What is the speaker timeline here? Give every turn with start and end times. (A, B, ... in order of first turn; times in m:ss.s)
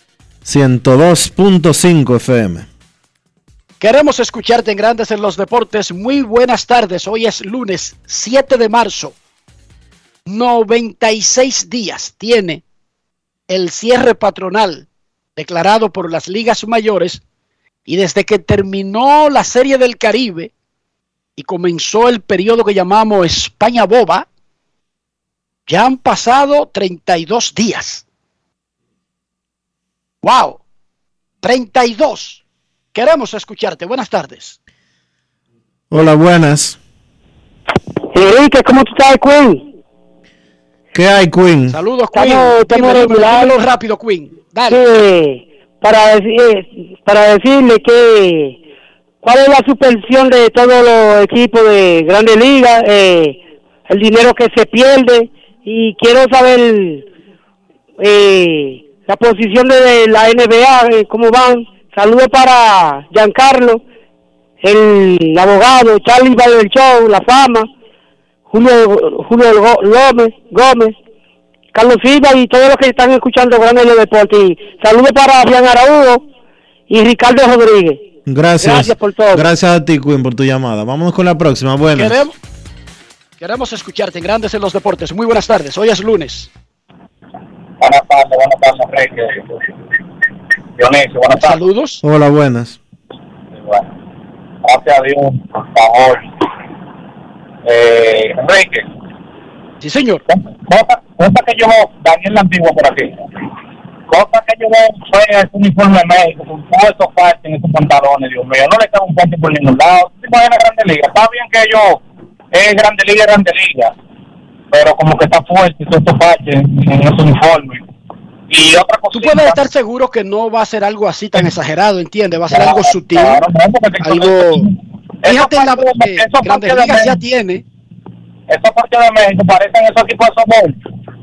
0:00.4-0:02.7 A
0:03.8-0:09.1 B
0:10.3-0:12.6 B
0:13.5-0:17.2 B
0:17.9-0:20.5 B
0:21.4-0:24.3 B
0:25.7-0:28.0 B
0:30.2-0:30.6 B
0:31.4-0:32.4 B
0:32.9-0:34.6 B
0:35.9-0:36.8 A
0:38.1-0:39.6 C
0:40.9-0:41.8 A
0:41.7-0:44.8 B
0:42.1-0:43.5 C
0:44.7-0:48.6 C
0:49.2-0:57.1 C
0:58.0-1:03.8 C
1:04.6-1:07.7 C
1:08.5-1:11.0 C
1:11.7-1:16.2 C
1:16.9-1:18.0 C
1:18.3-1:22.2 A
1:18.6-1:19.5 C
1:22.0-1:22.3 B
1:23.4-1:26.5 B
1:27.8-1:29.6 D
1:30.8-1:31.6 D
1:31.4-1:32.0 B
1:32.0-1:32.8 A
1:34.6-1:36.5 D
1:37.6-1:38.9 D
1:39.8-1:40.2 B
1:40.3-1:43.3 D
1:44.1-1:52.0 D
1:52.5-1:53.9 D
1:54.7-1:57.8 D
1:58.5-1:59.6 D
1:59.1-2:03.4 B
2:02.5-2:07.1 D
2:04.0-2:04.7 B
2:05.3-2:07.6 B
2:08.5-2:10.8 D